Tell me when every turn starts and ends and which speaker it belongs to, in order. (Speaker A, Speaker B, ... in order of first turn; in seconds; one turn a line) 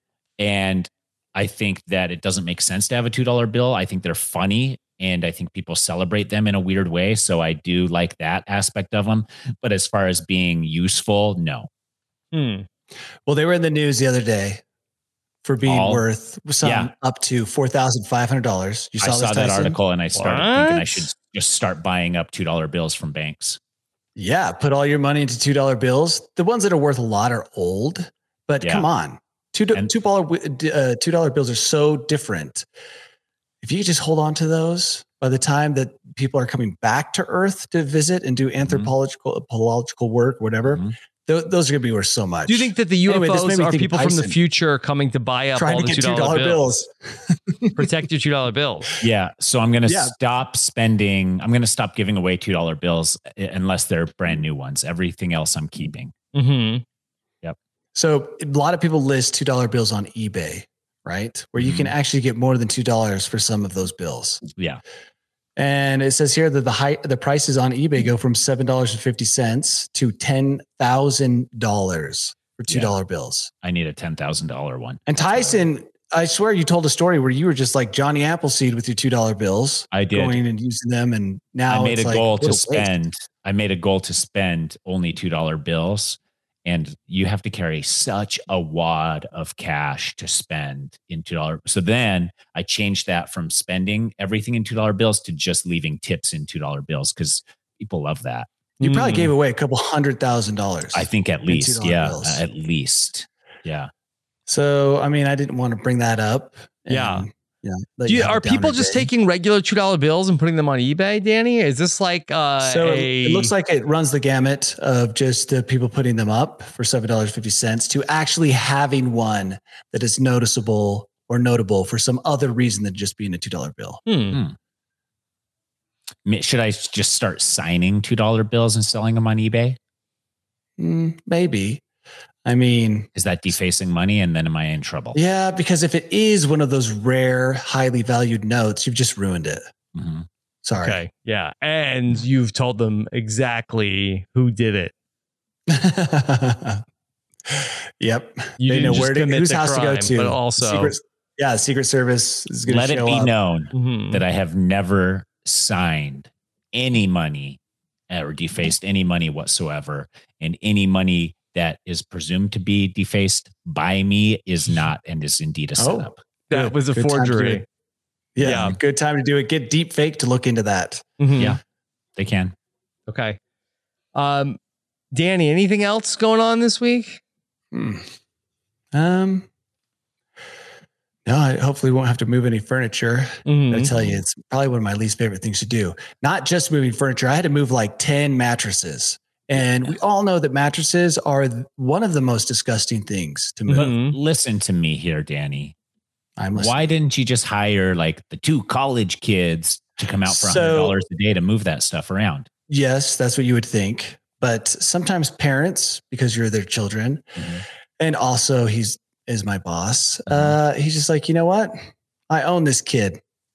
Speaker A: 0.4-11.7
Speaker B: 12.3-12.7
Speaker C: 13.2-14.6
Speaker C: 15.4-19.8
Speaker A: 15.7-16.0
Speaker A: 16.6-16.9
Speaker A: 19.0-23.6
Speaker B: 20.1-21.0
Speaker C: 24.1-32.6
Speaker A: 28.6-28.9
Speaker C: 33.6-44.4
Speaker A: 38.6-38.9
Speaker A: 40.7-40.9
Speaker B: 42.5-46.6
Speaker C: 45.5-47.9
Speaker B: 47.8-48.9
Speaker A: 49.0-56.1
Speaker C: 49.9-50.1
Speaker B: 56.3-56.8
Speaker C: 57.9-64.4
Speaker A: 61.6-61.9
Speaker A: 64.5-64.8
Speaker C: 65.5-73.5
Speaker A: 72.7-72.9
Speaker A: 73.6-75.6
Speaker C: 75.1-82.9
Speaker A: 79.9-80.4
Speaker A: 81.7-98.5
Speaker B: 98.8-99.3
Speaker C: 98.8-102.4
Speaker A: 100.9-103.9
Speaker C: 104.5-109.1
Speaker B: 106.9-107.2
Speaker B: 108.1-113.5
Speaker C: 112.6-124.0
Speaker B: 124.1-124.4
Speaker A: 126.2-129.8
Speaker C: 130.8-131.8
Speaker C: 132.4-133.1
Speaker A: 133.2-135.2
Speaker C: 135.1-139.6
Speaker A: 139.9-140.2
Speaker C: 140.6-141.0
Speaker B: 140.8-144.9
Speaker C: 145.7-146.8
Speaker C: 147.5-153.3
Speaker B: 148.6-150.9
Speaker A: 152.7-157.6
Speaker B: 153.7-154.2
Speaker A: 158.1-166.2
Speaker C: 165.8-167.6
Speaker B: 166.5-167.6
Speaker C: 168.3-171.1
Speaker B: 168.4-168.7
Speaker A: 168.4-168.7
Speaker B: 171.2-171.6
Speaker A: 172.2-172.5
Speaker B: 173.1-173.4
Speaker B: 174.1-174.6
Speaker B: 175.1-177.2
Speaker C: 177.7-178.1
Speaker C: 178.9-179.5
Speaker C: 181.2-193.9
Speaker B: 183.4-183.9
Speaker A: 183.9-184.2
Speaker B: 193.7-194.1
Speaker A: 193.8-195.7
Speaker C: 196.4-196.8
Speaker A: 196.5-202.5
Speaker C: 200.2-200.9
Speaker C: 202.7-207.3
Speaker A: 207.3-207.6
Speaker C: 208.0-211.8
Speaker A: 210.3-210.6
Speaker C: 212.3-213.2